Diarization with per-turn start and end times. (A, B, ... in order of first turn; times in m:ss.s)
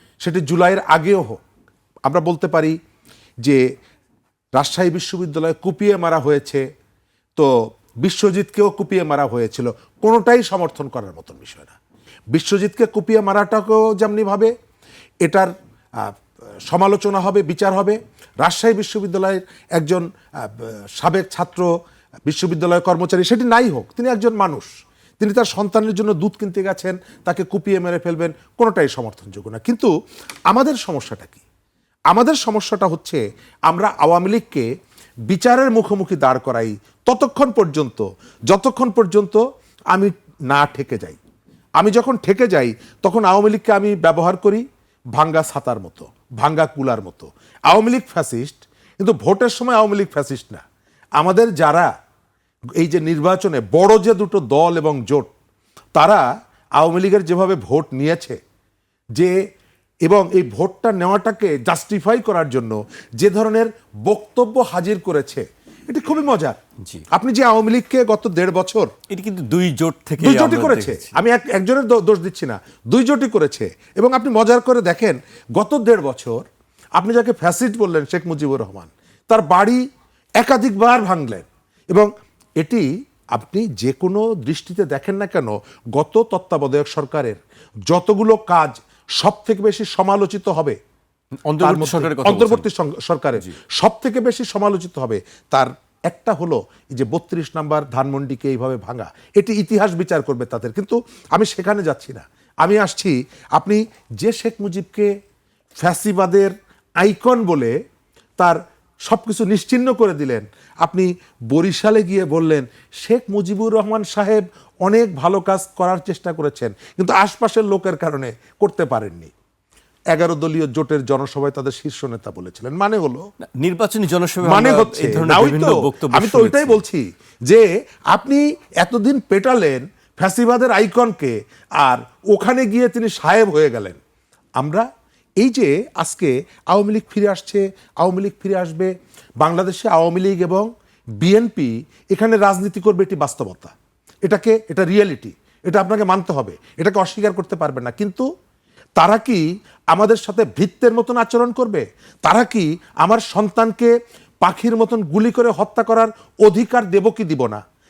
0:00.2-0:01.4 A
0:02.1-0:02.8 A
0:04.6-0:06.6 A
0:08.0-0:11.8 A
0:12.3-0:14.5 A
0:15.2-0:16.2 A
0:16.7-0:21.7 A
0:22.3-0:29.9 A
0:30.5-0:31.4 A
0:32.1-0:34.7 A
0:35.3-0:41.2 A
0:41.8-0:50.6 A
0:51.2-0:51.9 A
0:52.8-0:55.3 A
0:56.0-0:56.3 A
0:56.8-0:58.4 A
1:00.0-1:06.6 A
1:07.1-1:08.9 A
1:09.1-1:11.1 B
1:10.2-1:16.4 A
1:17.0-1:19.8 A
1:20.4-1:22.1 A
1:22.6-1:30.8 A
1:31.4-1:32.7 B
1:31.6-1:45.1 A
1:45.8-1:47.7 A
1:48.4-1:59.3 A
2:00.1-2:03.3 A
2:03.6-2:06.8 B
2:04.4-2:14.0 A
2:14.6-2:14.9 A
2:15.4-2:20.7 A
2:21.2-2:23.7 A
2:24.2-2:28.2 A
2:29.0-2:33.9 A
2:34.4-2:37.6 A